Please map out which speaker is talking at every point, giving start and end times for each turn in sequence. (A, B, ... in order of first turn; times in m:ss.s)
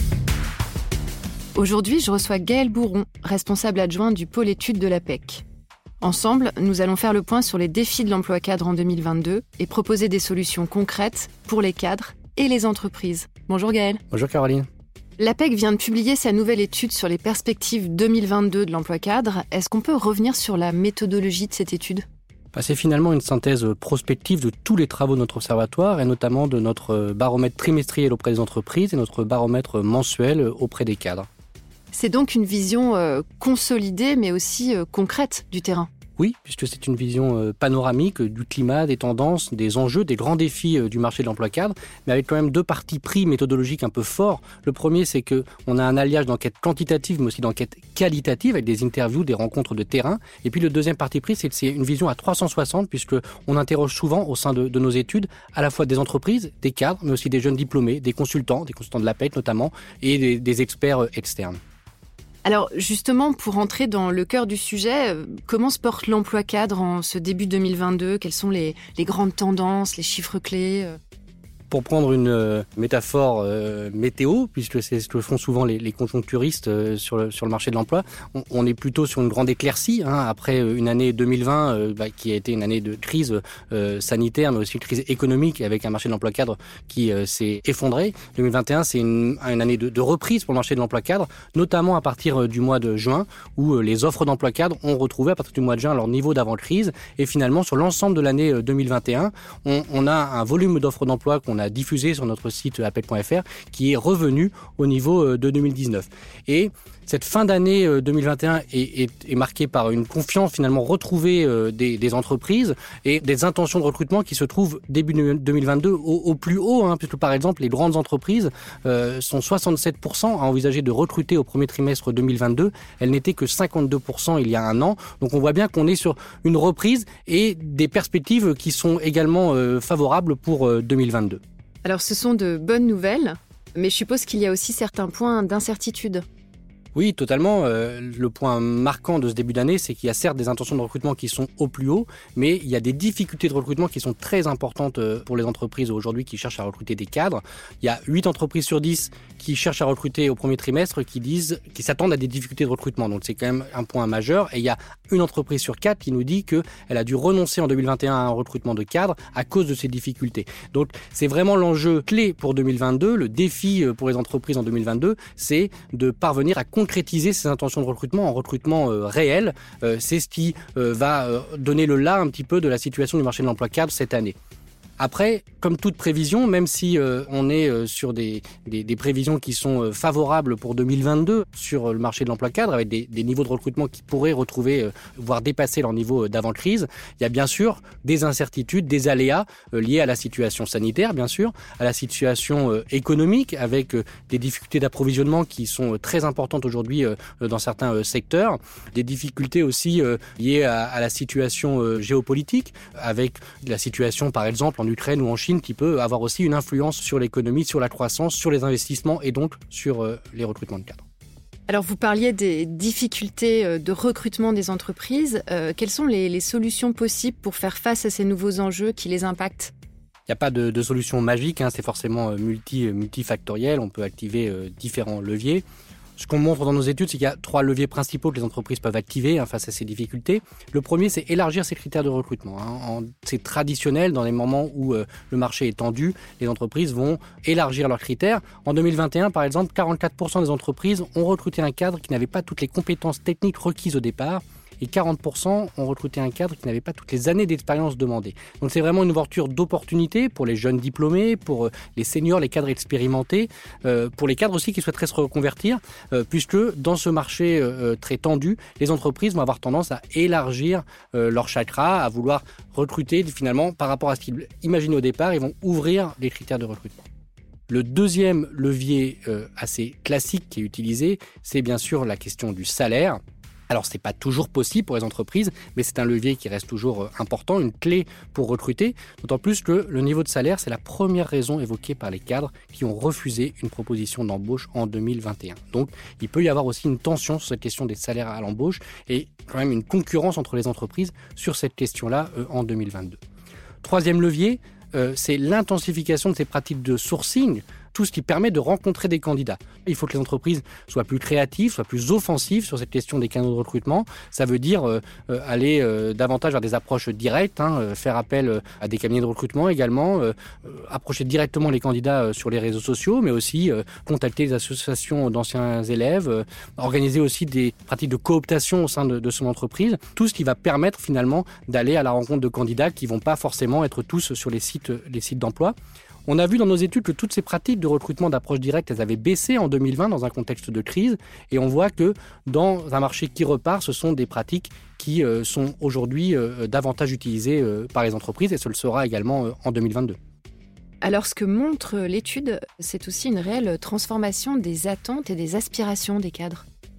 0:01.6-0:05.4 A
0:06.0-0:14.0 A
0:14.1-0:14.7 B
0:15.2-0:22.0 A
0:22.5-0:31.3 B
0:31.9-0:35.9 A
0:36.2-1:01.6 B
1:02.4-1:11.0 A
1:11.7-2:11.4 B
2:11.8-2:16.2 A
2:17.0-2:54.4 B
2:55.0-3:31.0 B
3:31.7-3:39.7 A
3:40.3-3:45.6 B
3:46.2-4:27.0 B
4:27.7-4:33.2 B
4:33.7-4:53.2 B
4:53.8-5:25.8 B
5:26.3-5:40.2 B
5:41.0-5:46.6 A